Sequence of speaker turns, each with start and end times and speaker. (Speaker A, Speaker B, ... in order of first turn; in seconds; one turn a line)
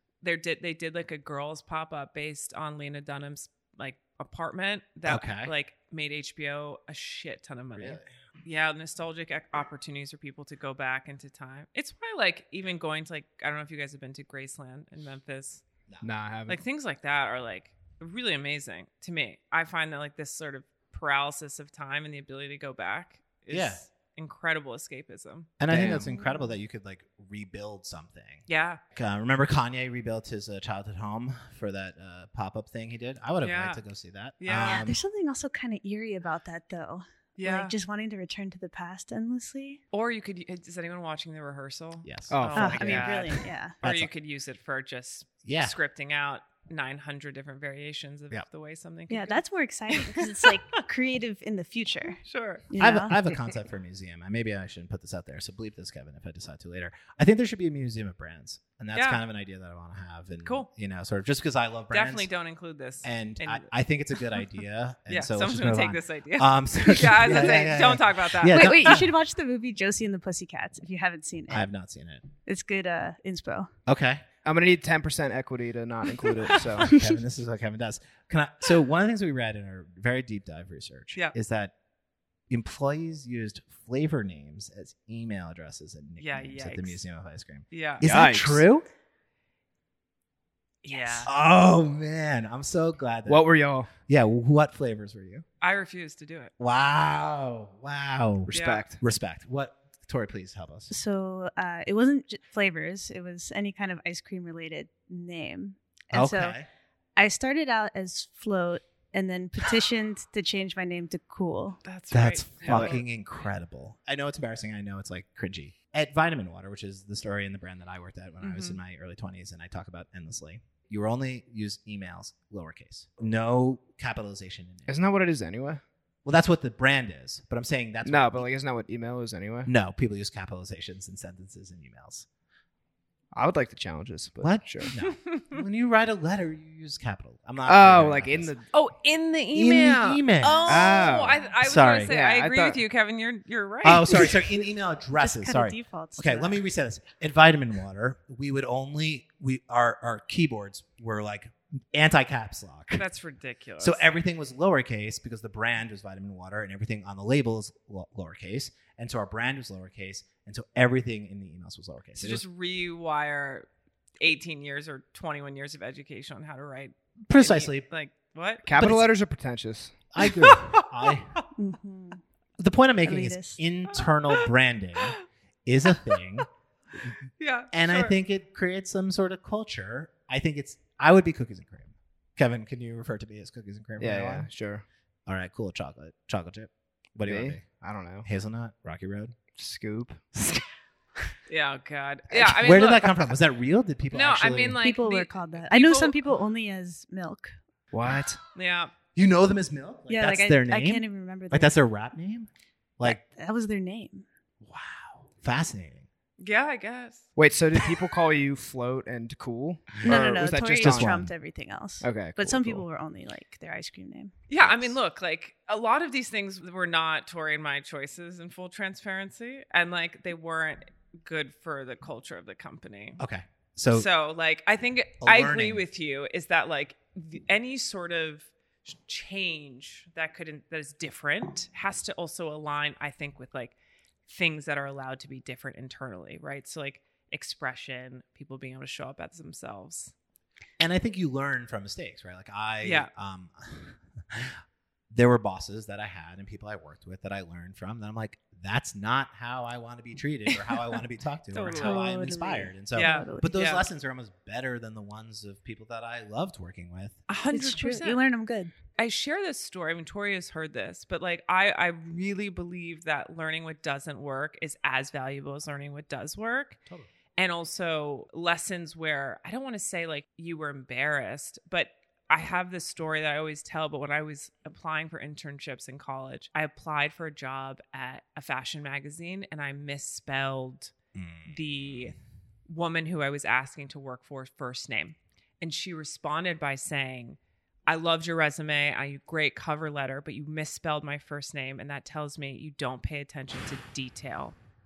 Speaker A: 0.2-15.6
Speaker B: 5.1-5.5
Speaker B: 7.8-8.1
Speaker C: 16.0-16.6
Speaker A: 16.5-25.5
Speaker B: 23.5-23.8
Speaker B: 25.6-35.0
Speaker C: 25.7-26.1
Speaker D: 25.9-26.5
Speaker A: 28.5-28.8
Speaker A: 33.4-33.8
Speaker A: 34.4-34.9
Speaker D: 34.6-39.8
Speaker A: 37.4-37.8
Speaker A: 39.9-49.4
Speaker B: 42.0-43.2
Speaker C: 42.3-43.1
Speaker D: 42.5-43.8
Speaker B: 43.8-44.1
Speaker B: 45.4-45.8
Speaker D: 49.1-53.2
Speaker A: 49.9-50.5
Speaker A: 52.2-52.7
Speaker B: 52.8-62.3
Speaker A: 59.0-59.2
Speaker A: 61.9-63.7
Speaker B: 63.0-69.1
Speaker A: 65.1-69.0
Speaker D: 68.5-71.7
Speaker B: 71.5-72.2
Speaker D: 72.5-73.7
Speaker B: 73.9-74.2
Speaker C: 74.4-76.9
Speaker B: 76.8-81.7
Speaker B: 82.5-88.9
Speaker A: 86.2-87.0
Speaker A: 87.7-88.0
Speaker C: 88.0-88.7
Speaker A: 90.8-91.3
Speaker D: 90.9-91.2
Speaker B: 91.2-95.4
Speaker C: 93.3-93.9
Speaker A: 95.6-96.5
Speaker B: 96.6-100.9
Speaker C: 98.5-99.0
Speaker A: 98.5-98.8
Speaker D: 100.9-106.6
Speaker B: 106.1-106.7
Speaker D: 107.2-111.8
Speaker A: 111.8-113.0
Speaker B: 112.1-125.0
Speaker C: 112.7-113.0
Speaker A: 118.4-118.8
Speaker C: 124.9-125.8
Speaker B: 126.2-128.5
Speaker C: 128.1-129.7
Speaker B: 129.7-132.3
Speaker C: 133.3-134.9
Speaker B: 134.4-138.6
Speaker A: 135.0-135.6
Speaker C: 137.7-138.6
Speaker A: 138.7-144.3
Speaker B: 139.5-141.0
Speaker C: 140.7-142.8
Speaker B: 141.6-142.2
Speaker B: 143.8-153.0
Speaker D: 145.2-146.6
Speaker A: 152.9-154.1
Speaker B: 153.8-162.4
Speaker A: 162.2-163.7
Speaker A: 164.2-168.7
Speaker B: 167.3-167.9
Speaker C: 168.7-170.0
Speaker B: 168.8-169.1
Speaker B: 170.1-171.3
Speaker A: 170.2-171.5
Speaker D: 171.6-172.2
Speaker B: 172.6-176.5
Speaker D: 173.0-173.6
Speaker A: 173.9-174.5
Speaker A: 175.9-176.2
Speaker A: 177.4-178.2
Speaker B: 177.7-184.5
Speaker C: 184.0-184.8
Speaker B: 185.3-187.7
Speaker C: 187.3-188.3
Speaker B: 188.2-189.4
Speaker C: 189.5-190.3
Speaker B: 190.4-190.6
Speaker A: 191.5-193.3
Speaker B: 192.3-194.8
Speaker A: 194.1-196.2
Speaker D: 194.8-197.6
Speaker C: 197.9-198.4
Speaker A: 198.6-198.9
Speaker B: 199.2-203.2
Speaker D: 200.1-201.7
Speaker D: 203.0-204.3
Speaker B: 204.6-206.1
Speaker A: 206.4-207.3
Speaker C: 207.4-211.2
Speaker B: 210.0-211.3
Speaker D: 210.0-214.3
Speaker C: 212.0-212.8
Speaker A: 214.5-223.2
Speaker B: 214.6-215.0
Speaker B: 223.2-224.1
Speaker A: 223.9-233.8
Speaker B: 225.2-225.8
Speaker A: 234.3-240.1
Speaker B: 240.8-244.6
Speaker A: 242.8-243.1
Speaker B: 245.1-257.2
Speaker A: 251.5-252.0
Speaker D: 251.7-253.5
Speaker A: 252.9-253.8
Speaker A: 257.3-258.2
Speaker D: 257.5-258.7
Speaker A: 259.0-266.8
Speaker A: 267.4-280.9
Speaker B: 281.1-281.6
Speaker A: 281.5-294.6